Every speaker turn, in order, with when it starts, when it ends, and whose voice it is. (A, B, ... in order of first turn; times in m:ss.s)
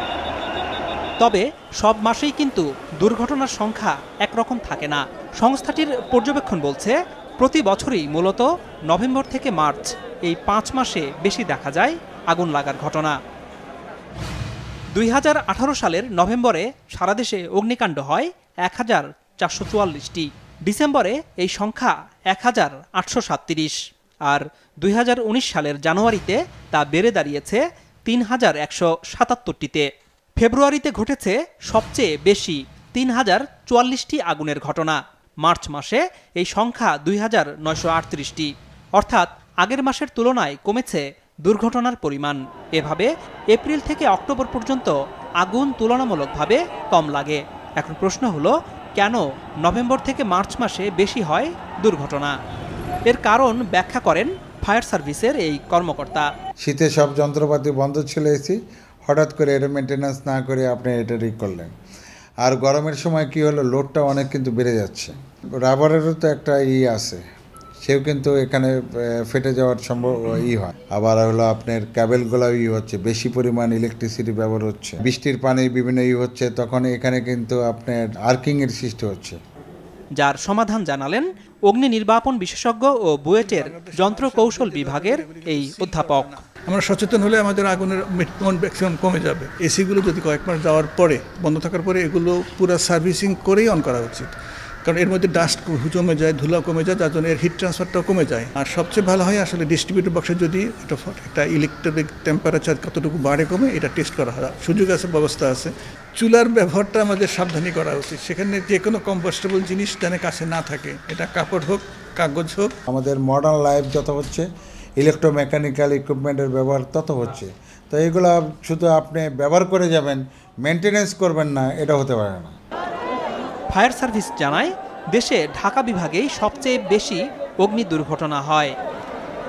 0:01.2-0:13.2 A
0:14.9-0:23.8 A
0:24.3-0:29.9 A
0:30.4-0:52.4 A
0:53.1-0:56.3 A
0:56.6-1:01.7 B
1:02.4-1:07.2 B
1:07.8-1:19.4 B
1:20.2-1:26.3 A
1:23.4-1:34.3 C
1:34.8-1:52.7 C
1:52.9-1:54.5 B
1:55.0-2:02.5 B
2:03.7-2:08.7 A